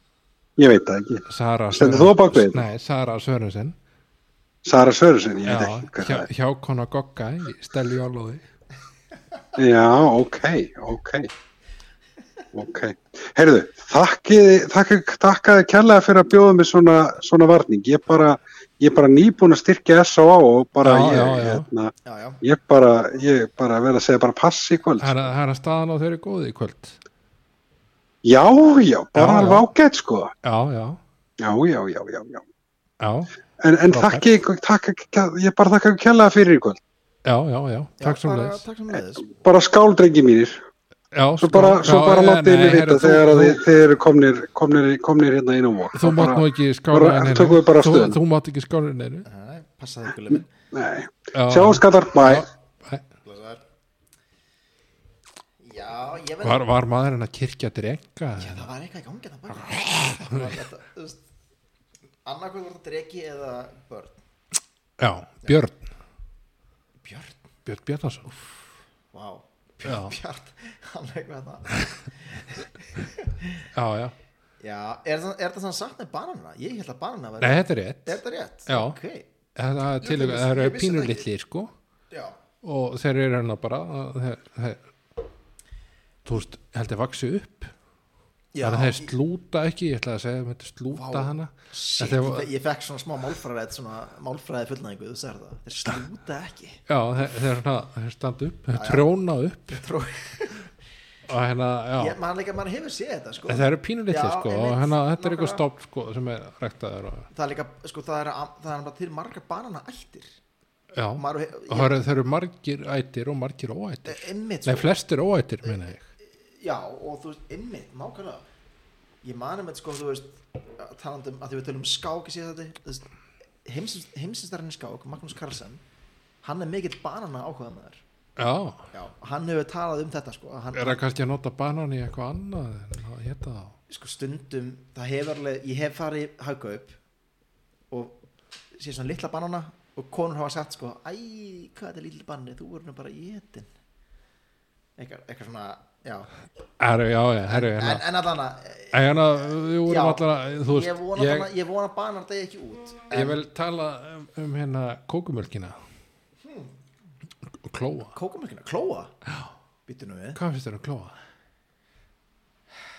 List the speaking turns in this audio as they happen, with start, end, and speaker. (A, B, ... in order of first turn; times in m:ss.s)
0:00.6-0:02.7 A
0:01.3-0:03.8 B
0:04.6-0:06.3 A
0:05.4-0:08.4 B
0:09.6-0:11.3 A
0:12.5-0:25.2 A
0:20.8-0:21.7 B
0:22.0-0:22.4 C
0:25.0-0:27.0 B
0:28.2-0:30.3 A
0:29.1-0:29.6 B
0:30.4-0:31.0 B
0:31.4-0:32.4 A
0:33.0-0:33.3 B
0:33.6-0:36.8 A
0:33.9-0:34.2 B
0:37.2-0:38.6 B
0:38.0-0:39.3 C
0:39.2-0:40.6 A
0:41.1-0:43.6 B
0:41.4-0:48.2 A
0:45.9-0:49.2 B
0:49.2-0:50.5 C
0:50.7-0:52.5 A
0:51.3-0:53.0 B
0:53.2-0:53.6 C
0:55.6-0:56.7 C
0:56.4-0:58.7 B
0:58.4-1:01.2 C
1:00.2-1:00.6 B
1:02.2-1:04.2 C
1:05.0-1:05.8 B
1:07.0-1:07.4 C
1:07.6-1:08.3 B
1:08.3-1:13.6 C
1:09.8-1:10.1 B
1:13.7-1:14.1 B
1:14.6-1:19.3 C
1:17.4-1:19.0 B
1:19.6-1:21.7 B
1:20.0-1:21.3 C
1:22.1-1:22.4 C
1:22.6-1:24.8 B
1:26.2-1:27.7 B
1:28.5-1:29.1 C
1:28.6-1:32.5 B
1:30.9-1:37.3 C
1:36.9-1:39.8 B
1:38.7-1:39.1 C
1:39.7-1:40.7 C
1:41.2-1:42.2 B
1:42.0-1:45.6 C
1:43.4-1:47.3 B
1:47.3-1:50.3 C
1:50.9-1:56.0 B
1:51.2-1:51.9 C
1:54.1-1:54.9 C
1:56.6-1:58.4 C
1:59.2-2:03.1 C
2:03.6-2:05.8 C
2:06.4-2:08.0 C
2:08.4-2:08.9 B
2:08.9-2:11.0 C
2:10.7-2:13.8 B
2:13.9-2:17.0 C
2:17.9-2:18.2 C
2:18.7-2:23.7 C
2:25.0-2:26.3 C
2:26.8-2:28.1 B
2:27.4-2:33.4 C
2:28.9-2:31.5 B
2:33.1-2:35.8 B
2:36.4-2:36.8 C
2:37.6-2:38.1 B
2:38.1-2:39.1 C
2:39.9-2:40.4 C
2:40.3-2:41.2 B